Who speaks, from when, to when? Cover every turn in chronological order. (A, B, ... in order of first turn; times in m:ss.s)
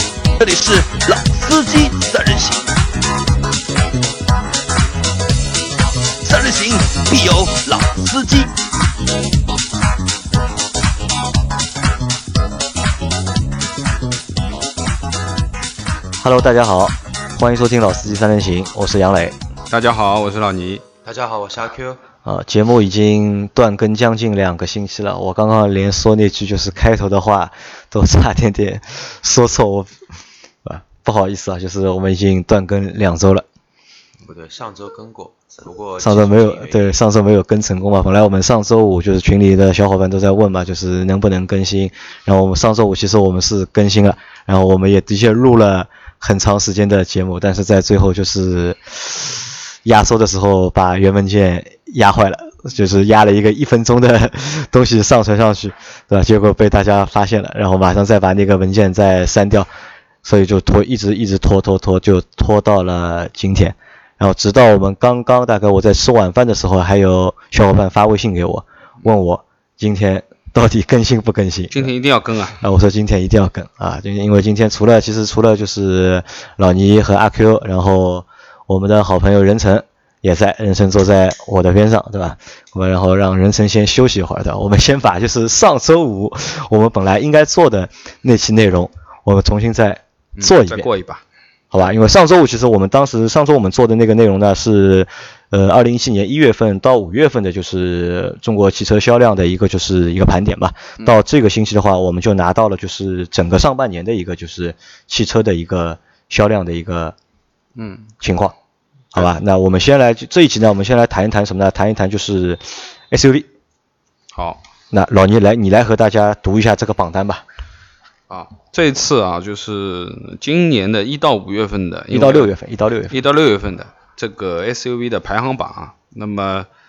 0:00.4-0:02.6 A
0:06.2-0:08.5 A
0:16.2-0:19.4 B
0:19.7-0:20.8 C
0:21.0-0:22.0 D
0:22.2-0:30.0 B
0:30.6-0:33.4 B
0:34.2-0:37.0 D
0:36.0-0:59.7 B
1:00.2-1:11.9 B
1:11.7-1:12.6 C
1:12.6-1:30.9 B
1:30.4-1:31.2 C
1:31.7-1:47.2 B
1:47.8-1:48.1 C
1:48.2-1:48.6 B
1:49.1-1:53.5 B
1:54.3-1:54.6 C
1:54.9-1:57.4 B
1:58.3-2:02.5 C
2:02.1-2:03.1 B
2:03.1-2:06.7 C